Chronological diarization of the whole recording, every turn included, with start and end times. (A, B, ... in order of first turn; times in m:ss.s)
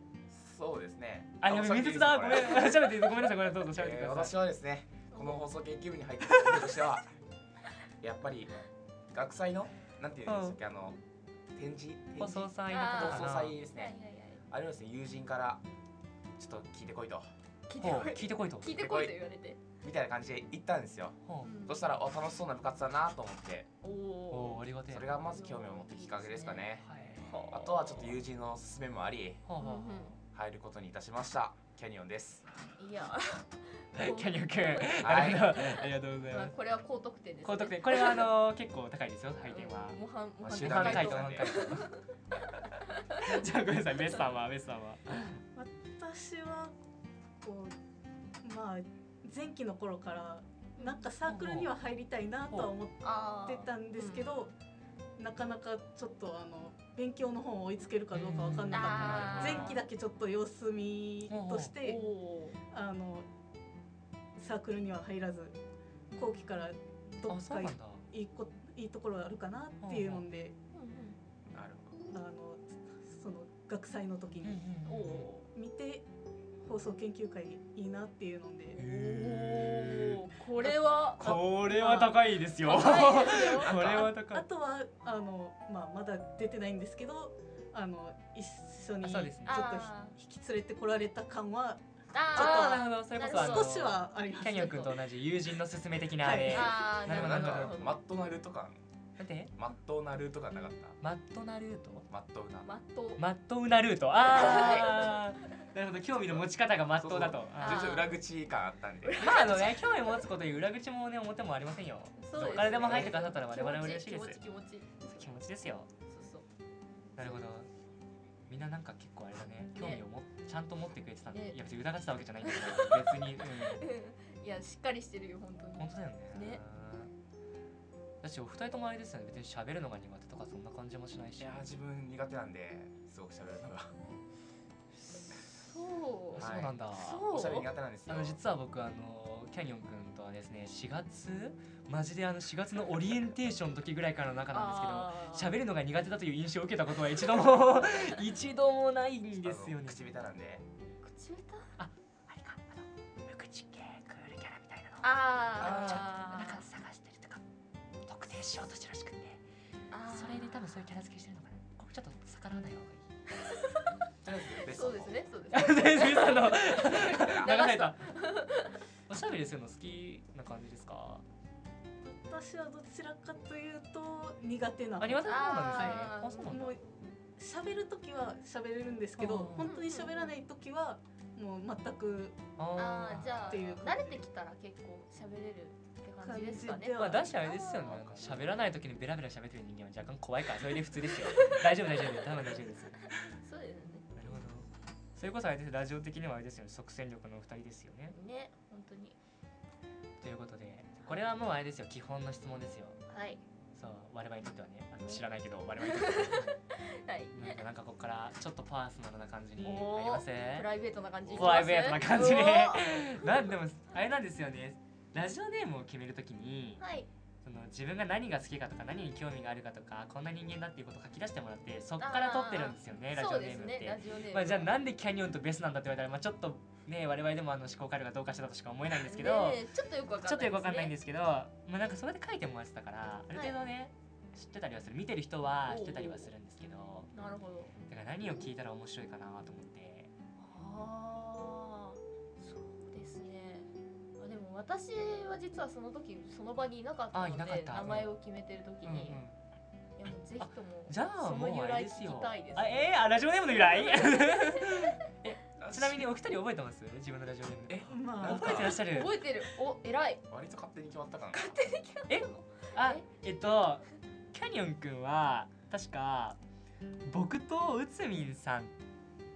0:00.3-0:03.2 A
0:01.4-0:04.4 B
0:03.8-0:07.1 A
0:05.1-0:05.4 C
0:06.3-0:06.9 B
0:08.0-0:08.6 A
0:09.1-0:11.0 A
0:10.3-0:10.6 B
0:11.5-0:14.0 A
0:12.2-0:13.6 B
0:12.7-0:14.4 C
0:14.5-0:15.6 A
0:16.4-0:17.3 A
0:17.7-0:19.6 C
0:17.8-0:18.8 B
0:18.7-0:19.2 A
0:19.8-0:23.7 A
0:21.2-0:21.5 B
0:21.4-0:21.8 C
0:23.8-0:27.9 C
0:24.3-0:25.1 B
0:24.9-0:26.9 A
0:26.8-0:27.3 B
0:27.5-0:29.4 A
0:29.4-0:30.2 B
0:29.6-0:30.2 C
0:30.3-0:32.4 A
0:32.8-0:34.9 C
0:33.9-0:36.5 B
0:35.0-0:35.5 A
0:35.5-0:38.3 C
0:37.4-0:40.0 B
0:39.4-0:42.0 C
0:40.4-0:41.5 A
0:40.6-0:41.9 B
0:43.2-0:45.4 B
0:45.5-0:46.7 D
0:47.4-0:47.8 D
0:48.4-0:54.5 D
0:50.8-0:51.1 C
0:51.2-0:51.7 B
0:52.5-0:52.7 B
0:53.0-0:54.4 C
0:55.2-1:02.1 D
0:58.1-0:59.8 B
0:58.7-0:59.8 C
1:01.3-1:01.7 B
1:01.8-1:02.6 C
1:02.6-1:03.3 D
1:04.4-1:05.6 D
1:06.1-1:10.6 D
1:07.3-1:08.0 B
1:09.8-1:10.2 B
1:10.7-1:11.2 C
1:11.5-1:11.9 A
1:12.1-1:14.6 D
1:14.4-1:15.3 B
1:14.9-1:15.5 C
1:15.5-1:16.0 D
1:16.6-1:18.8 D
1:18.7-1:23.8 C
1:18.8-1:24.4 B
1:22.8-1:23.2 D
1:23.6-1:24.1 A
1:24.0-1:31.8 D
1:29.0-1:29.6 B
1:29.4-1:30.2 C
1:32.1-1:33.7 C
1:32.3-1:35.0 D
1:32.4-1:37.8 B
1:36.2-1:36.9 D
1:36.5-1:38.0 C
1:37.0-1:38.8 A
1:39.2-1:39.5 B
1:39.6-1:41.0 A
1:41.0-1:42.1 B
1:42.1-1:42.7 A
1:42.6-1:43.2 C
1:43.2-1:48.0 B
1:44.2-1:45.2 C
1:46.1-1:46.5 A
1:47.0-1:49.2 A
1:47.6-1:48.1 C
1:49.0-1:49.9 C
1:49.2-1:54.4 B
1:52.2-1:55.3 C
1:52.3-1:53.3 A
1:55.0-1:55.9 B
1:56.1-1:56.4 C
1:57.2-1:57.7 B
1:58.5-2:03.9 B
1:59.8-2:00.0 C
2:01.3-2:01.6 C
2:02.4-2:06.6 C
2:05.8-2:07.1 B
2:08.2-2:11.6 B
2:11.4-2:13.9 A
2:15.5-2:17.7 C
2:16.3-2:17.2 B
2:16.4-2:16.8 A
2:17.3-2:18.4 A
2:18.1-2:30.0 B
2:24.5-2:25.5 C
2:29.4-2:30.6 A
2:31.0-2:31.7 C
2:31.8-2:37.4 B
2:35.0-2:36.6 C
2:35.6-2:36.1 A
2:38.0-2:39.4 B
2:39.9-2:40.6 C
2:40.1-2:43.1 B
2:43.5-2:43.8 C
2:44.2-2:45.2 A
2:44.5-2:48.7 C
2:45.5-2:48.0 B
2:49.1-2:51.2 B
2:52.0-2:56.8 D
2:55.0-2:56.8 B
2:55.2-2:56.6 C
2:57.4-3:02.4 D
2:59.2-2:59.7 B
2:59.6-3:00.3 C
3:02.6-3:03.6 B
3:02.8-3:08.0 C
3:03.3-3:04.3 D
3:06.2-3:07.4 D
3:06.8-3:13.1 B
3:07.8-3:08.6 A
3:13.2-3:14.1 C
3:14.1-3:18.1 B
3:18.1-3:19.2 C
3:20.2-3:23.0 B
3:23.1-3:23.4 C
3:23.8-3:26.6 B
3:25.8-3:27.6 C
3:27.3-3:30.7 B
3:29.6-3:33.3 C
3:31.3-3:36.8 B
3:31.3-3:31.6 A
3:36.8-3:37.1 C
3:37.4-3:49.6 B
3:42.0-3:44.7 C
3:48.9-3:50.9 C
3:50.2-3:57.1 B
3:53.3-3:53.6 C
3:55.6-3:56.3 C
3:57.1-3:57.8 C
3:57.9-4:00.1 B
4:00.4-4:09.2 C
4:07.1-4:08.2 B
4:08.8-4:09.4 B
4:10.0-4:12.9 C
4:10.4-4:19.2 B
4:13.8-4:14.9 C
4:15.6-4:16.1 A
4:17.7-4:18.8 A
4:17.9-4:18.5 D
4:18.4-4:20.2 C
4:20.3-4:21.6 A
4:21.3-4:23.0 C
4:22.1-4:26.4 B
4:27.1-4:28.8 B